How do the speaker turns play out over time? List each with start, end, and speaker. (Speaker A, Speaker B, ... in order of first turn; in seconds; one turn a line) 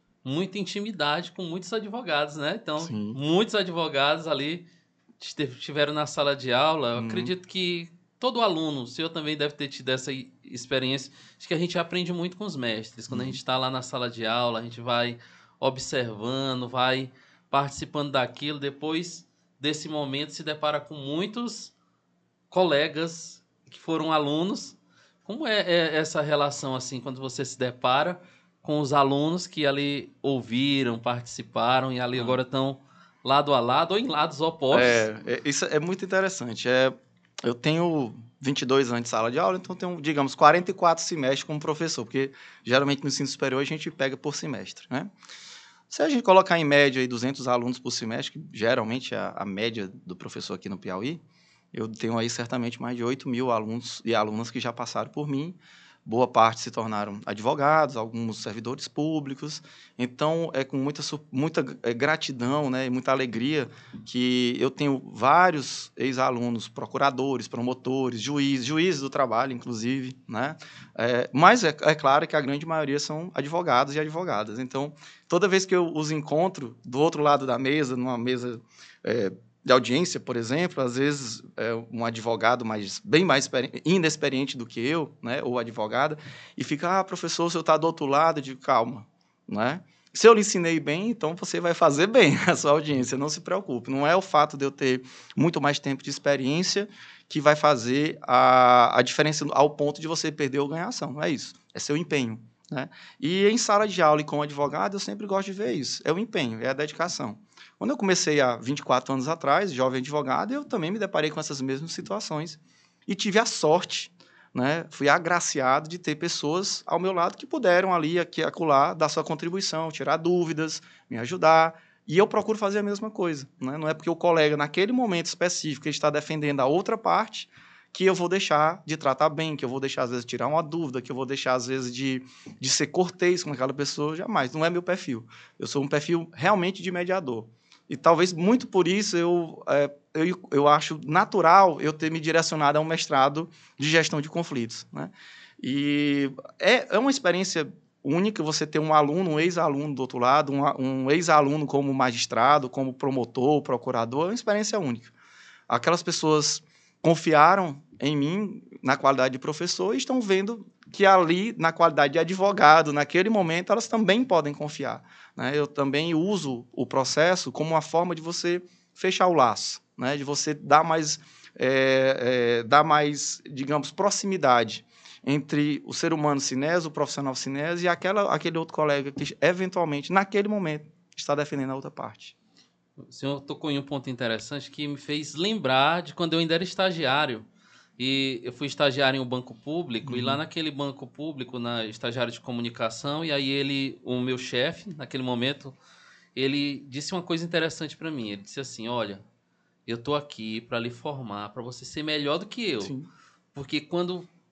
Speaker A: 0.2-4.7
Speaker B: 2.8-3.2
Speaker A: 5.2-21.7
Speaker B: 7.0-7.3
Speaker B: 13.1-13.4
Speaker A: 22.5-35.1
Speaker B: 32.1-32.4
Speaker B: 34.7-45.1
Speaker B: 45.9-51.2
Speaker B: 51.7-155.1
Speaker B: 155.7-182.3
Speaker A: 183.0-187.5
Speaker A: 188.0-195.8
Speaker B: 190.0-190.4
Speaker A: 196.3-199.2
Speaker A: 199.8-202.9
Speaker B: 202.8-203.1
Speaker A: 203.5-204.3